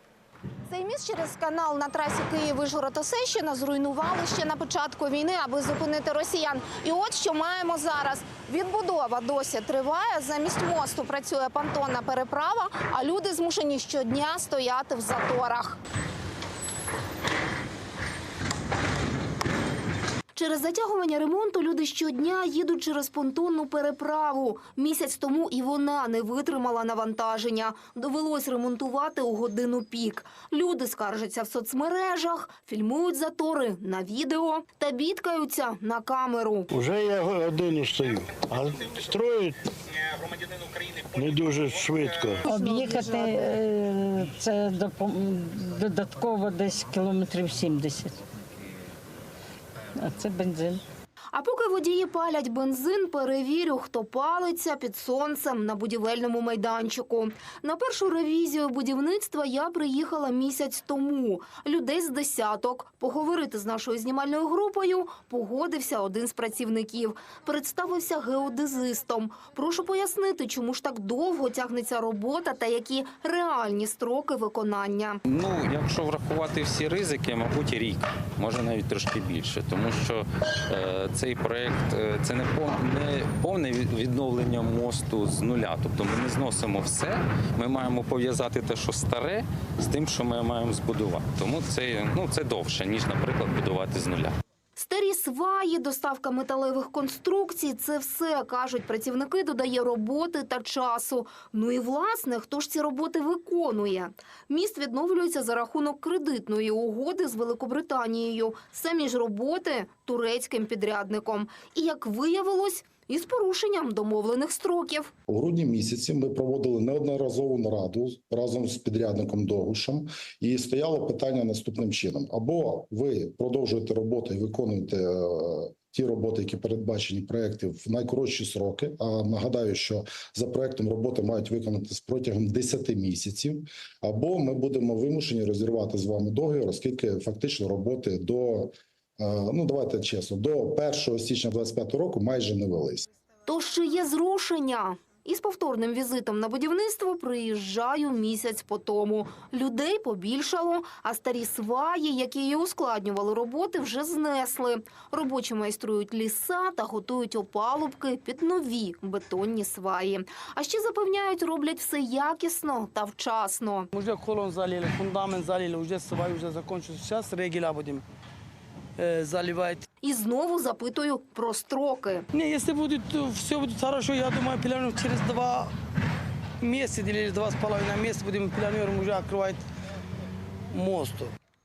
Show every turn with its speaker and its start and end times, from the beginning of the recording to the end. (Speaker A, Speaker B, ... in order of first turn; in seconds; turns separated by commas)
Speaker A: 0.7-15.8, Speaker A: 20.4-36.7, Speaker B: 36.7-39.7, Speaker B: 41.1-42.5, Speaker A: 42.5-43.5, Speaker C: 42.5-48.2, Speaker C: 50.0-50.8, Speaker A: 51.3-75.2, Speaker D: 75.3-94.3, Speaker A: 94.8-115.1, Speaker E: 115.3-143.1, Speaker A: 143.5-163.9, Speaker F: 163.9-168.0, Speaker F: 169.0-169.8, Speaker A: 170.0-172.3, Speaker F: 172.3-175.7, Speaker F: 176.6-179.6, Speaker F: 180.7-181.3